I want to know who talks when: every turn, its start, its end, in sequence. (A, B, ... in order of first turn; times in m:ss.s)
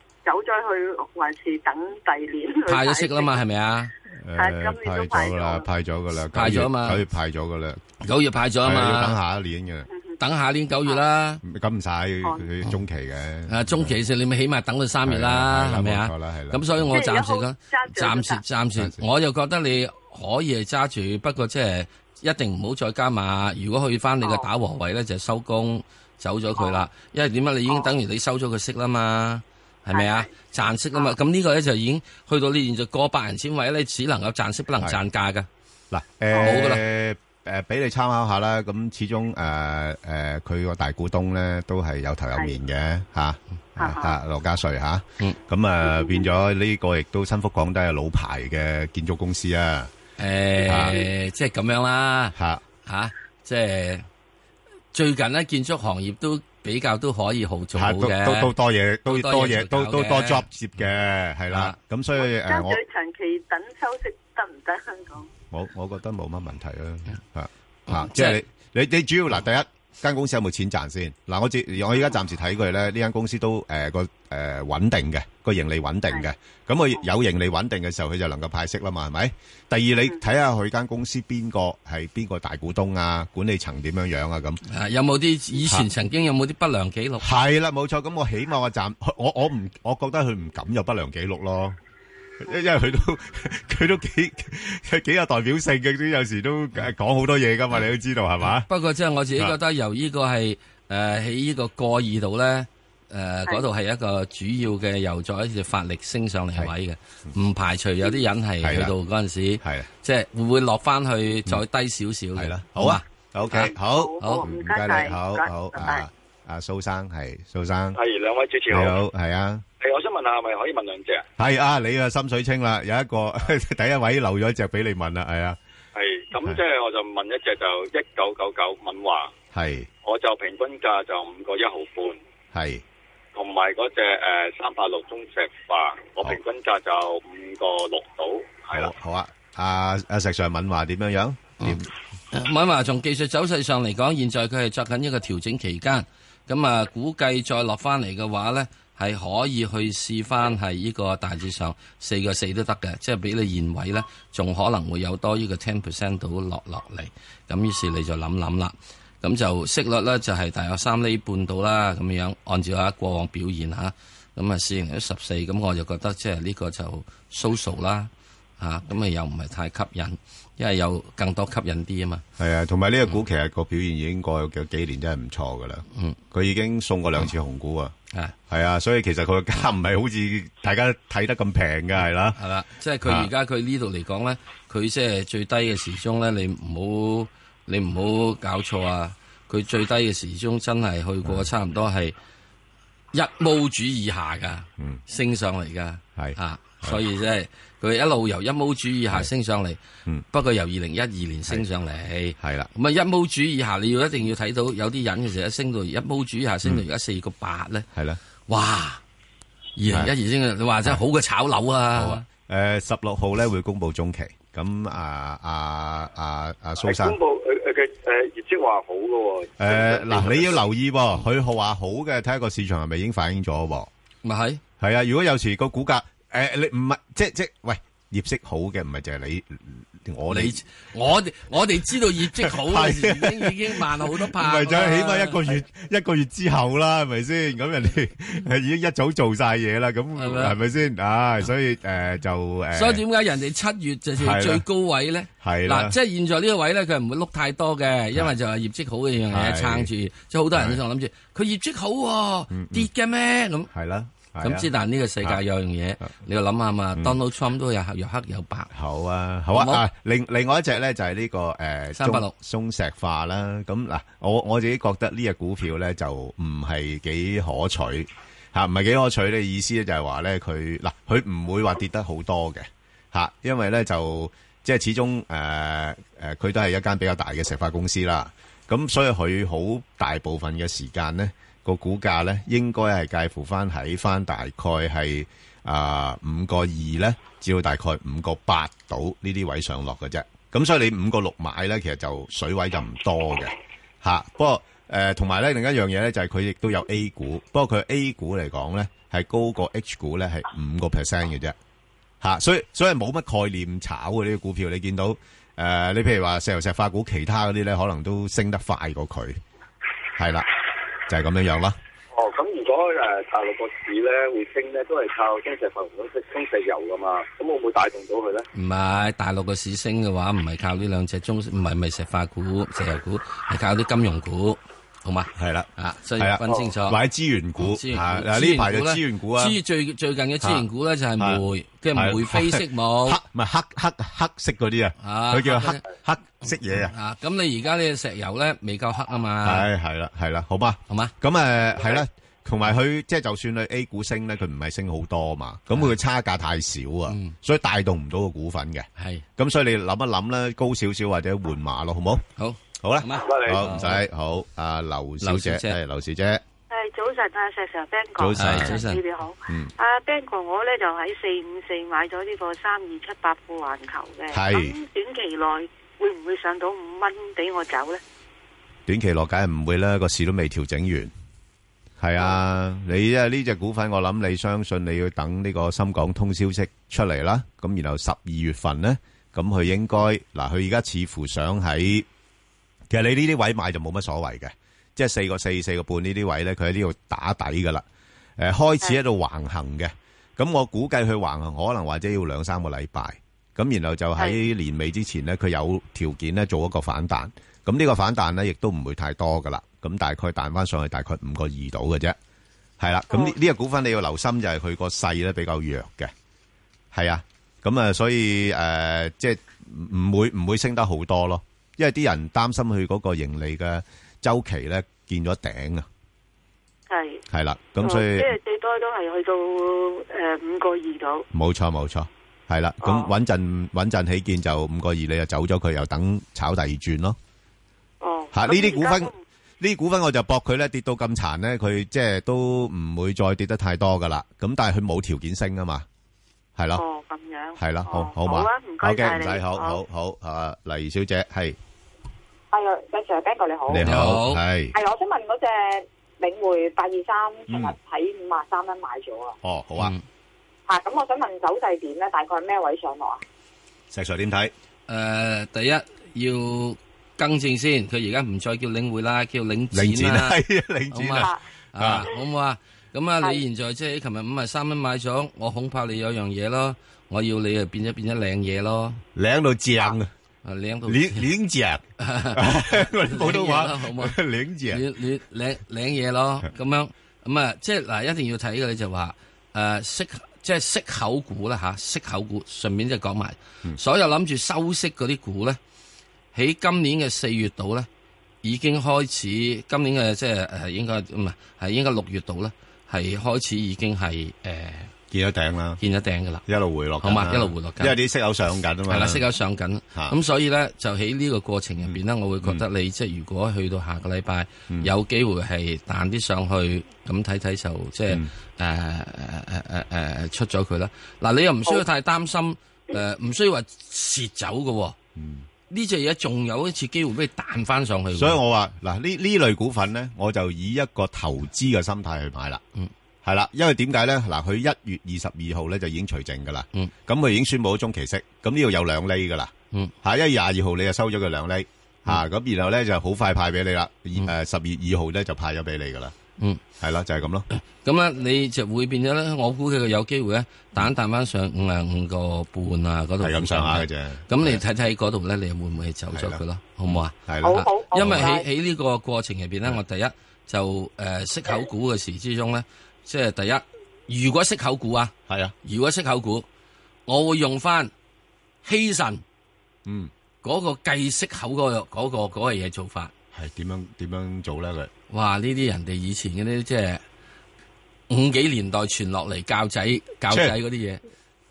0:00.2-0:03.4 A
0:02.7-0:03.9 B
0:04.2-0:07.8 C
0:04.4-0:05.7 A
0:06.3-0:07.0 B
0:08.0-0:09.2 B
0:08.6-0:09.9 C
0:10.2-0:11.4 B
0:11.4-0:14.0 C
0:13.5-0:35.5 B
0:15.0-0:16.9 C
0:16.9-0:18.4 A
0:35.9-0:49.9 C
0:36.3-0:36.8 B
0:43.8-0:44.1 A
0:45.9-0:46.2 A
0:50.2-0:54.1 B
0:50.7-0:51.1 C
0:52.4-0:52.6 C
0:54.9-0:58.5 B
0:57.8-1:02.8 C
0:59.1-1:00.4 B
1:01.5-1:01.8 B
1:02.2-1:05.3 A
1:05.5-1:24.6 C
1:07.9-1:08.4 B
1:24.7-1:27.3 B
1:27.2-1:31.8 C
1:32.4-1:38.7 C
1:38.6-1:54.5 B
1:48.6-1:48.9 C
1:49.6-1:49.9 C
1:52.4-1:58.0 C
1:53.6-1:56.1 A
1:58.0-1:59.0 D
1:58.7-1:59.6 C
1:59.8-2:01.2 D
2:01.4-2:05.6 C
2:06.0-2:09.3 D
2:09.5-2:09.9 C
2:10.0-2:12.2 D
2:12.5-2:12.8 C
2:13.4-2:18.9 D
2:18.7-2:21.9 C
2:22.3-2:52.2 B
2:52.4-2:58.0 C
2:58.5-3:02.4 C
3:02.4-3:12.2 B
3:13.1-3:19.8 B
3:16.2-3:17.0 C
3:20.3-3:27.9 B
3:22.4-3:22.7 C
3:28.0-3:28.2 C
3:28.5-3:29.0 B
3:29.8-3:32.2 B
3:31.9-3:37.2 C
3:36.8-3:40.6 D
3:39.6-3:43.9 C
3:44.2-3:44.6 B
3:44.8-3:50.6 C
3:50.3-3:55.6 B
3:52.0-4:03.0 C
4:00.2-4:00.6 B
4:02.7-4:13.7 B
4:04.2-4:04.6 C
4:05.4-4:06.0 C
4:09.3-4:09.9 C
4:10.5-4:10.8 C
4:12.5-4:12.9 C
4:13.7-4:14.7 C
4:14.4-4:18.7 B
4:18.7-5:01.6 C
4:19.5-4:19.8 B
4:22.0-4:22.3 B
5:02.2-5:09.4 C
5:10.2-5:10.5 C
5:11.1-5:11.8 C
5:12.1-5:18.4 D
5:18.6-5:27.0 B
5:25.4-5:29.6 C
5:27.6-5:33.2 B
5:30.4-5:30.7 C
5:31.9-5:36.9 C
5:35.0-5:35.8 B
5:36.7-5:39.7 B
5:39.4-5:52.2 C
5:47.1-5:47.4 B
5:49.0-5:49.2 B
5:52.4-5:54.0 B
5:52.8-5:56.4 C
5:53.2-5:53.6 D
5:55.2-5:55.8 B
5:56.7-6:08.0 E
5:58.2-5:58.8 C
5:58.4-5:59.0 B
6:04.3-6:04.8 C
6:08.9-6:11.1 C
6:12.0-6:22.1 C
6:22.9-6:27.8 C
6:28.4-6:42.2 C
6:42.8-6:46.1 C
6:46.9-6:55.9 C
6:56.9-6:57.2 E
6:57.3-6:58.3 C
6:57.8-7:01.2 E
7:01.3-7:07.2 C
7:02.8-7:03.1 E
7:08.0-7:09.2 E
7:08.3-7:15.9 C
7:16.6-7:16.8 C
7:16.8-7:19.8 E
7:17.6-7:21.6 C
7:22.5-7:24.1 F
7:23.7-7:24.7 C
7:23.8-7:24.4 B
7:24.7-7:29.4 F
7:29.4-7:29.9 C
7:29.8-7:30.0 B
7:30.7-7:33.2 F
7:33.9-7:34.5 C
7:34.9-7:40.4 B
7:39.7-7:42.1 C
7:40.9-7:49.0 B
7:49.2-7:50.1 C
7:50.4-7:51.3 B
7:50.9-7:54.8 C
7:52.0-7:54.2 B
7:54.7-8:05.6 B
8:06.3-8:07.9 B
8:08.4-8:14.9 B
8:15.1-8:15.8 C
8:15.8-8:16.4 B
8:16.5-8:19.2 C
8:17.0-8:18.0 B
8:18.9-8:35.0 B
8:21.8-8:22.6 C
8:35.2-8:35.5 C
8:35.7-8:38.4 B
8:38.1-8:42.6 C
8:43.2-8:49.5 C
8:50.0-8:56.2 C
8:56.8-8:57.5 C
8:57.5-9:15.1 B
9:03.2-9:04.6 C
9:06.1-9:08.3 C
9:07.4-9:08.5 F
9:15.3-9:15.6 C
9:15.6-9:16.5 B
9:17.1-9:17.9 B
9:18.6-9:19.2 B
9:19.9-9:20.1 C
9:20.4-9:23.1 B
9:23.3-9:24.9 C
9:25.1-9:27.0 B
9:28.1-9:31.0 B
9:30.3-9:30.6 C